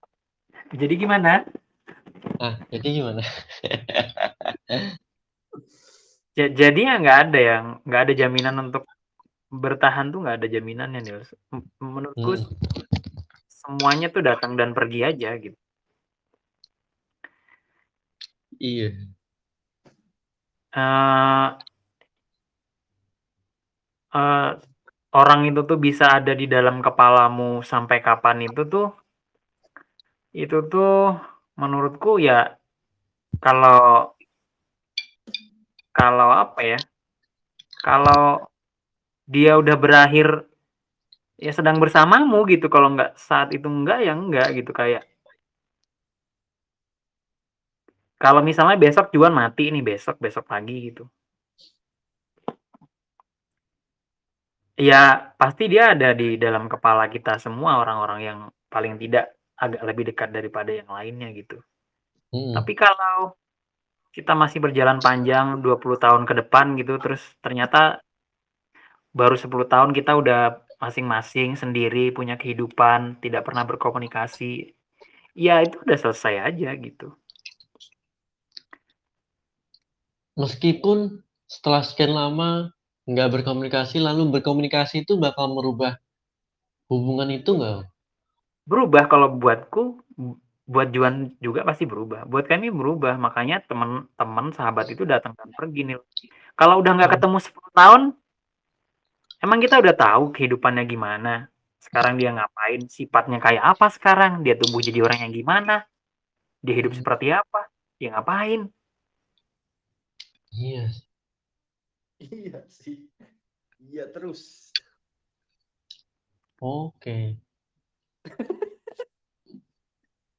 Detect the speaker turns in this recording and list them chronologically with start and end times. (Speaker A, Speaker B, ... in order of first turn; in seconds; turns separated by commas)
Speaker A: 0.8-1.4, Speaker B: 2.4-4.8, Speaker A: 6.4-8.8, Speaker A: 9.6-11.3, Speaker A: 11.8-12.4, Speaker B: 12.2-12.5, Speaker A: 13.6-15.6, Speaker B: 18.6-18.9, Speaker A: 20.8-21.5, Speaker A: 24.2-24.5, Speaker A: 25.2-28.8, Speaker A: 30.4-30.9, Speaker A: 31.6-32.4, Speaker A: 33.5-33.8, Speaker A: 36.0-36.8, Speaker A: 37.9-38.2, Speaker A: 39.3-40.3, Speaker A: 41.5-45.0, Speaker A: 48.2-51.1, Speaker A: 54.9-61.6, Speaker B: 62.4-62.7, Speaker A: 62.6-63.2, Speaker A: 64.2-67.8, Speaker A: 69.2-74.5, Speaker A: 75.4-77.1, Speaker B: 80.4-82.5, Speaker B: 83.1-85.9, Speaker B: 86.9-87.8, Speaker A: 88.7-89.8, Speaker A: 90.7-96.0, Speaker A: 96.6-98.0, Speaker A: 99.5-101.3, Speaker A: 101.9-105.8, Speaker A: 106.7-108.6, Speaker B: 110.6-111.0, Speaker C: 112.2-113.1, Speaker C: 113.8-114.8, Speaker B: 116.6-117.2, Speaker C: 118.3-118.7